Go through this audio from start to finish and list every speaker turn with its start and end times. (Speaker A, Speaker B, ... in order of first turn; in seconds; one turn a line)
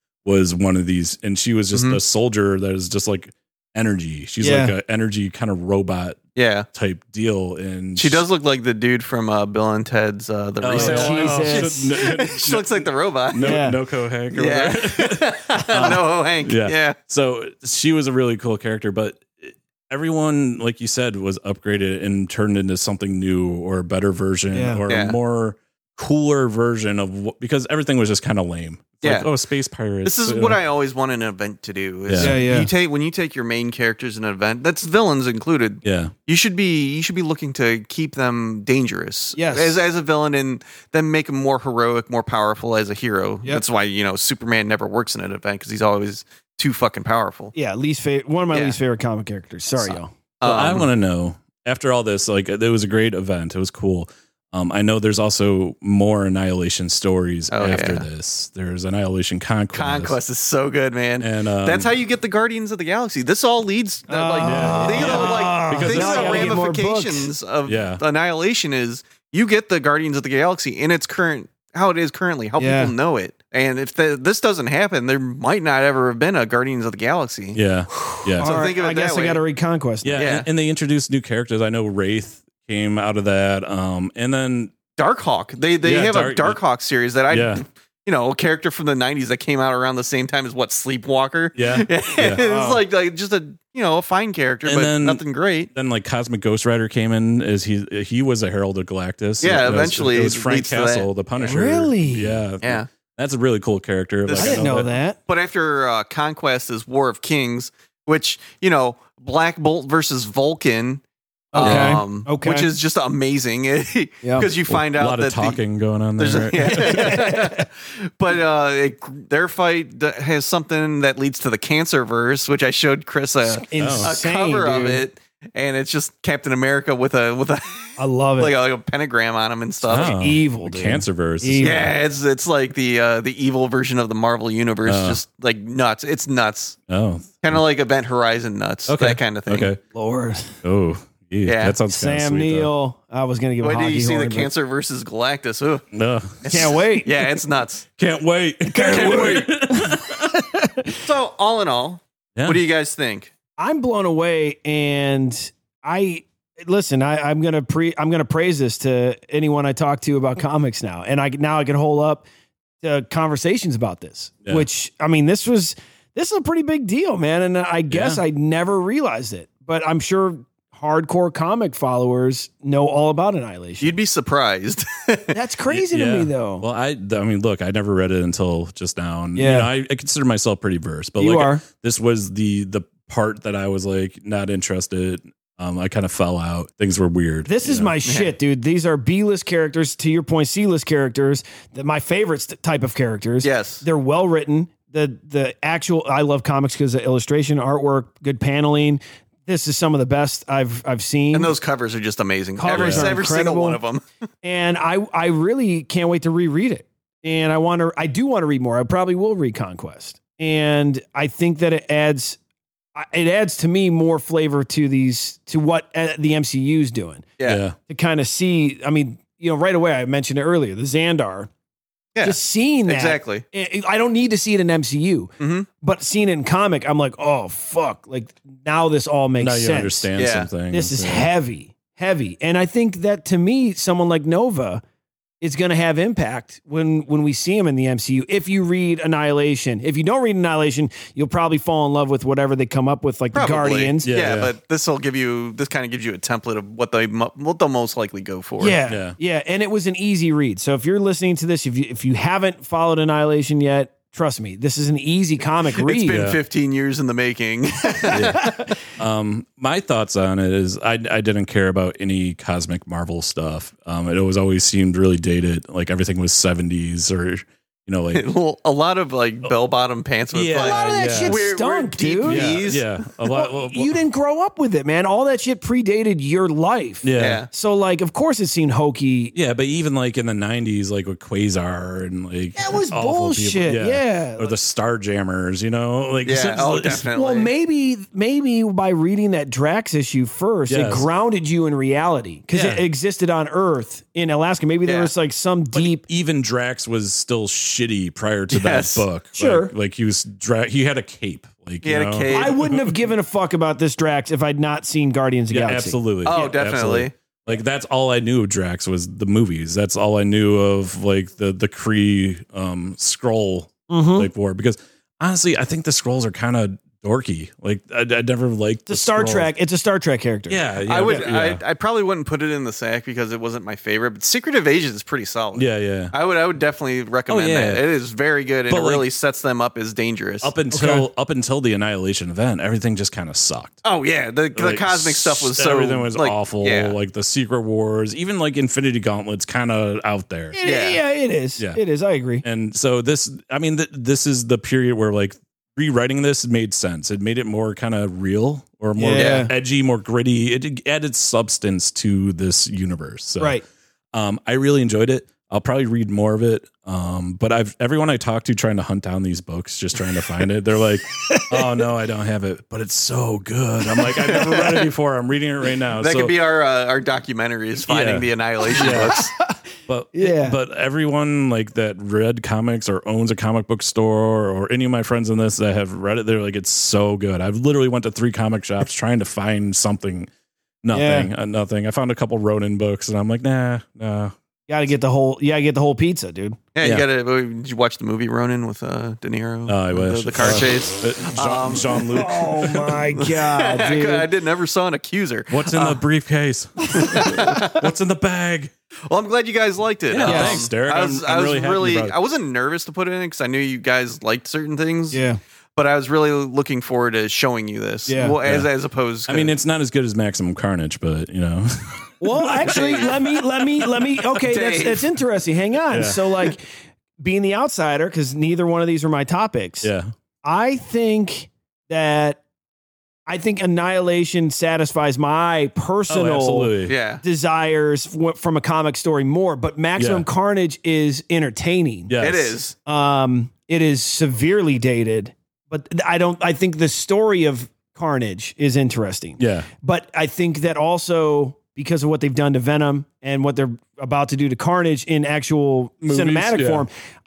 Speaker A: 0.2-8.2
Speaker B: 1.7-2.0
Speaker C: 4.4-4.7
Speaker B: 6.3-6.7
Speaker B: 8.0-13.6
Speaker A: 10.6-30.6
Speaker C: 10.7-11.9
Speaker C: 13.4-13.8
Speaker B: 14.3-16.9
Speaker C: 24.5-24.8
Speaker B: 24.9-25.1
Speaker B: 29.0-29.3
Speaker B: 30.0-47.5
Speaker A: 32.1-32.5
Speaker C: 32.2-32.7
Speaker A: 35.8-36.1
Speaker C: 39.3-39.8
Speaker C: 47.5-50.1
Speaker B: 48.5-48.8
Speaker B: 50.4-50.9
Speaker A: 50.4-60.2
Speaker B: 57.5-58.0
Speaker B: 59.7-77.6
Speaker A: 61.2-61.9
Speaker C: 64.1-67.3
Speaker A: 64.4-66.6
Speaker A: 67.6-68.0
Speaker C: 72.6-72.9
Speaker A: 77.5-78.6
Speaker C: 78.1-80.2
Speaker B: 78.4-79.4
Speaker A: 80.0-84.7
Speaker B: 80.2-80.5
Speaker B: 85.0-95.7
Speaker A: 85.8-86.6
Speaker A: 87.3-87.6
Speaker A: 91.5-92.4
Speaker C: 92.4-92.8
Speaker A: 94.7-104.9
Speaker B: 99.4-101.1
Speaker C: 101.4-102.4
Speaker B: 102.6-102.9
Speaker B: 104.3-104.7
Speaker C: 104.4-105.2
Speaker B: 105.2-111.0
Speaker C: 111.5-112.7
Speaker B: 111.5-115.6
Speaker A: 111.6-112.0
Speaker C: 114.2-114.5
Speaker A: 114.7-117.2
Speaker B: 116.2-130.1
Speaker C: 116.7-117.6
Speaker C: 123.5-125.0
Speaker A: 123.8-124.1
Speaker C: 128.0-128.5
Speaker A: 129.9-131.9
Speaker C: 129.9-131.9
Speaker B: 131.6-136.8
Speaker A: 134.8-135.2
Speaker A: 136.9-137.6
Speaker B: 137.4-139.7
Speaker A: 138.9-139.8
Speaker C: 139.9-140.6
Speaker A: 140.6-142.7
Speaker B: 141.4-141.8
Speaker C: 141.9-144.5
Speaker B: 143.6-145.8
Speaker A: 145.9-146.7
Speaker B: 146.4-147.8
Speaker C: 146.4-147.1
Speaker A: 148.0-150.4
Speaker C: 148.7-151.0
Speaker B: 148.8-149.5
Speaker B: 151.0-153.3
Speaker A: 152.3-152.6
Speaker C: 153.6-162.2
Speaker C: 162.8-173.9
Speaker A: 167.9-168.2
Speaker B: 173.8-175.3
Speaker C: 175.3-176.6
Speaker A: 175.7-187.9
Speaker C: 179.3-179.7
Speaker C: 181.2-181.6
Speaker C: 187.4-201.5
Speaker B: 188.0-188.3
Speaker B: 193.4-193.8
Speaker B: 201.3-204.0
Speaker C: 202.6-203.8
Speaker A: 202.7-203.2
Speaker C: 204.4-212.4
Speaker C: 212.9-217.3
Speaker A: 217.4-217.7
Speaker C: 217.9-221.5
Speaker B: 222.1-223.4
Speaker C: 222.2-230.1
Speaker B: 225.4-225.7
Speaker A: 229.4-231.3
Speaker B: 230.2-230.5
Speaker C: 230.7-234.8
Speaker C: 235.4-244.1
Speaker B: 243.3-248.8
Speaker A: 244.0-244.5
Speaker C: 248.6-256.2
Speaker A: 248.9-249.2
Speaker B: 255.7-258.5
Speaker A: 256.1-256.4
Speaker A: 258.1-268.2
Speaker B: 268.1-273.0
Speaker A: 270.3-271.4
Speaker C: 270.5-272.6
Speaker A: 272.2-273.9
Speaker C: 273.3-279.3
Speaker A: 277.0-277.4
Speaker B: 277.1-277.5
Speaker A: 279.3-287.1
Speaker C: 282.6-284.6
Speaker B: 286.2-287.5
Speaker C: 287.1-296.0
Speaker A: 290.7-291.1
Speaker A: 292.5-292.8
Speaker B: 294.9-295.1
Speaker A: 295.7-302.9
Speaker B: 298.5-299.1
Speaker C: 299.4-299.7
Speaker B: 301.8-302.6
Speaker C: 302.3-306.6
Speaker A: 305.5-319.5
Speaker B: 306.2-307.1
Speaker C: 313.9-314.3
Speaker C: 318.9-321.2
Speaker A: 320.5-321.6
Speaker B: 320.8-330.5
Speaker A: 325.5-326.1
Speaker A: 327.3-327.8
Speaker A: 328.7-329.1
Speaker A: 330.4-333.8
Speaker C: 330.7-331.1
Speaker B: 333.8-336.9
Speaker A: 334.5-340.6
Speaker C: 340.5-342.4
Speaker B: 340.6-341.0
Speaker A: 342.4-353.6
Speaker C: 348.9-349.5
Speaker B: 349.1-349.5
Speaker A: 354.1-366.3
Speaker C: 361.3-361.7
Speaker B: 364.2-364.9
Speaker B: 366.0-369.3
Speaker A: 367.9-369.3
Speaker A: 369.9-380.3
Speaker C: 370.1-370.6
Speaker A: 380.8-384.3
Speaker C: 380.9-381.3
Speaker C: 384.7-386.6
Speaker B: 386.8-392.0
Speaker A: 389.7-393.0
Speaker C: 392.1-394.3
Speaker B: 393.1-396.0
Speaker A: 395.5-398.7
Speaker B: 396.9-397.9
Speaker B: 399.1-405.2
Speaker A: 400.1-402.1
Speaker C: 400.2-400.6
Speaker C: 405.1-405.4
Speaker B: 405.8-409.6
Speaker C: 408.1-408.4
Speaker A: 408.2-408.7
Speaker A: 409.3-413.1
Speaker C: 412.2-416.7
Speaker B: 412.7-413.2
Speaker B: 414.4-415.1
Speaker A: 415.9-416.2
Speaker C: 417.2-419.9
Speaker A: 419.8-420.1
Speaker C: 420.4-422.4
Speaker C: 423.3-432.1
Speaker A: 426.1-426.9
Speaker B: 426.9-427.2
Speaker A: 430.0-430.3
Speaker A: 432.1-432.6
Speaker B: 432.2-432.7
Speaker C: 432.8-446.9
Speaker A: 439.4-439.7
Speaker A: 446.0-446.9